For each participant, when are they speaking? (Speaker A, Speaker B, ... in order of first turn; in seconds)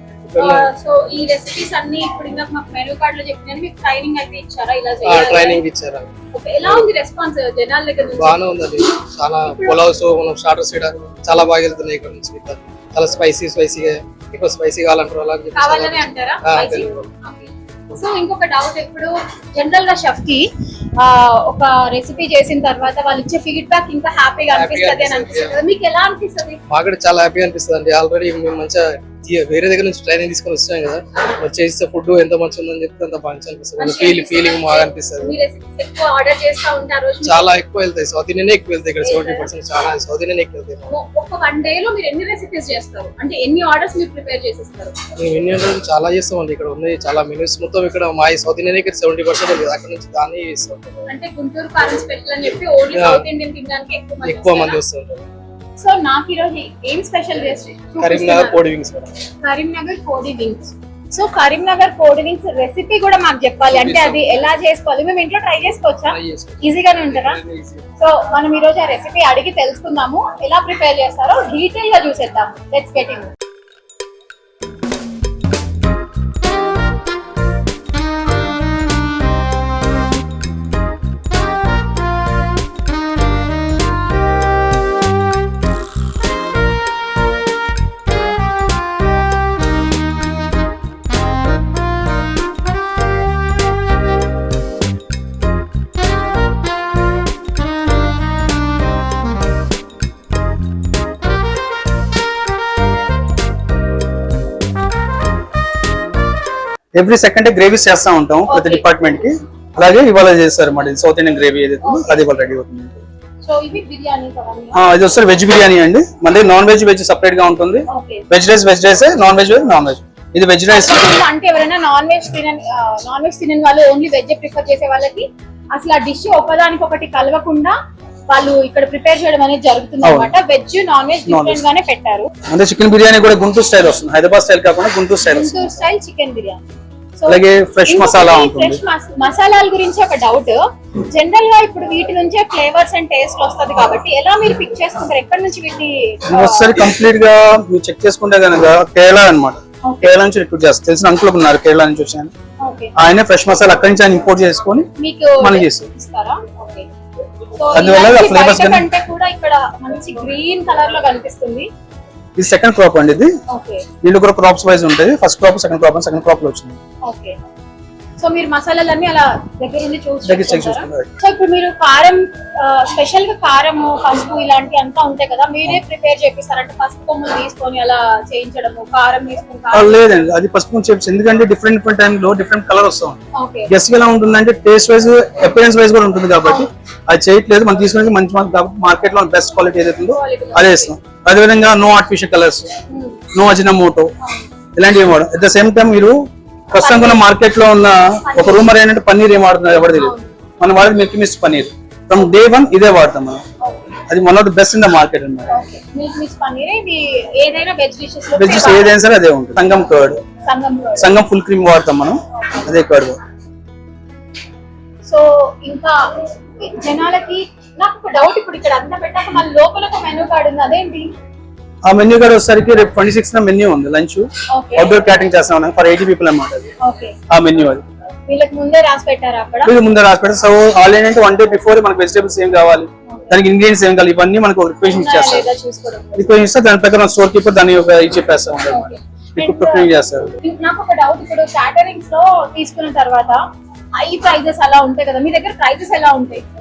Speaker A: 0.3-0.7, 5.0-6.1, 8.2-17.1, 24.5-25.6, 26.7-35.4, 37.2-40.9, 45.2-51.0, 52.9-53.3, 54.2-55.3, 58.0-59.1, 63.6-64.4, 66.1-67.8
Speaker B: 0.4-5.6, 6.3-8.4, 9.4-9.8, 15.6-26.6, 33.8-37.5, 39.0-39.5, 40.9-45.0, 51.1-54.8, 55.8-58.6, 59.4-67.4, 68.0-73.3, 108.5-108.8, 111.8-112.3, 113.4-114.9, 117.9-118.2, 120.7-127.8, 128.3-132.3, 135.2-136.6, 137.2-146.9, 149.8-150.1, 152.6-153.0, 155.0-156.9, 157.6-161.7, 163.5-163.9, 167.0-167.4, 168.2-180.0, 183.3-183.7, 190.1-190.9, 192.9-193.2, 194.2-194.5, 196.8-197.2, 198.3-198.7, 199.8-200.3, 203.6-203.9, 205.5-208.9, 210.4-211.1, 215.1-221.1, 224.5-225.0, 226.8-227.2, 228.3-229.8, 233.1-233.3, 234.9-236.3, 238.7-239.9, 240.4-243.4, 243.9-246.4
Speaker C: 107.0-113.0, 114.7-121.2, 130.0-130.3, 131.3-131.7, 132.5-135.7, 137.3-138.8, 146.3-152.3, 153.0-154.9, 155.4-155.9, 157.7-158.9, 162.4-163.3, 164.0-166.8, 170.2-171.1, 179.7-192.7, 193.3-194.1, 194.8-203.4, 204.1-205.6, 208.4-210.2, 211.0-213.2, 221.8-226.7, 227.3-227.8, 229.6-235.5, 236.2-240.3